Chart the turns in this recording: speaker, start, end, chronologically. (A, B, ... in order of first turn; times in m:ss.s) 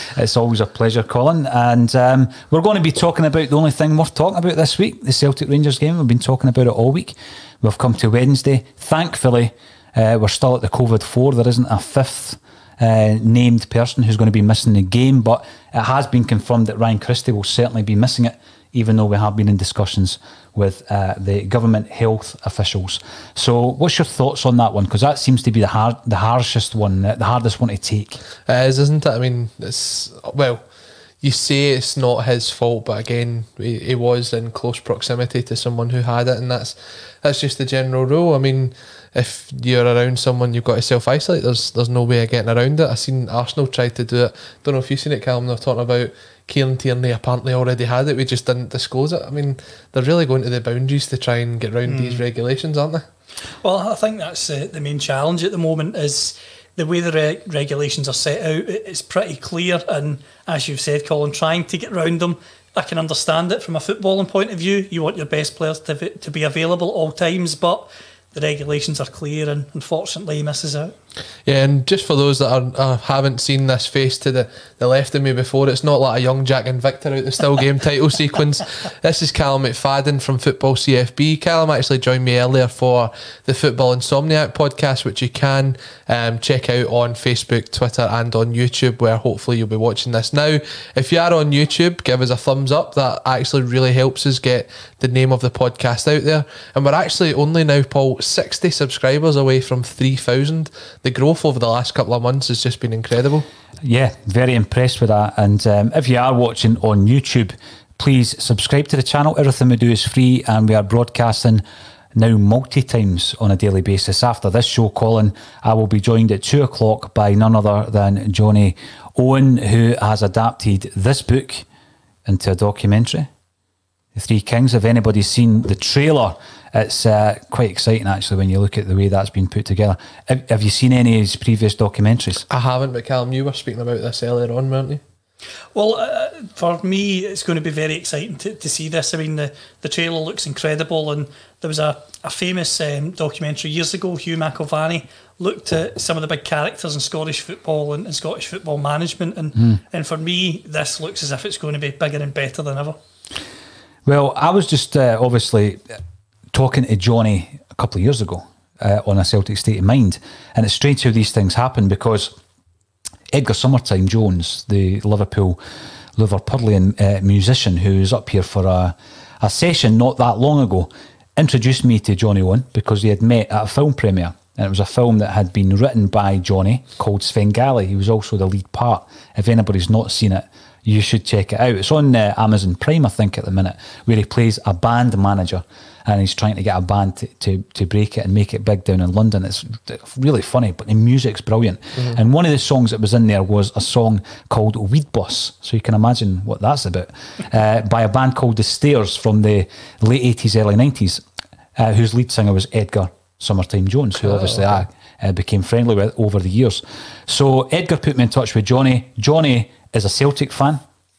0:00.1-0:28.2 A
0:28.5-0:30.6 B
0:31.2-0:53.1 B
0:51.9-0:52.2 C
0:53.6-1:10.9 C
1:11.4-1:43.5 B
1:43.8-1:51.6 A
1:52.2-2:01.6 A
2:02.3-2:03.3 A
2:04.1-2:12.4 A
2:12.5-2:15.0 B
2:15.7-2:33.0 C
2:34.1-2:35.8 A
2:36.5-2:42.3 A
2:43.3-2:45.6 A
2:46.2-3:21.2 A
3:21.8-3:30.8 A
3:24.2-3:24.8 B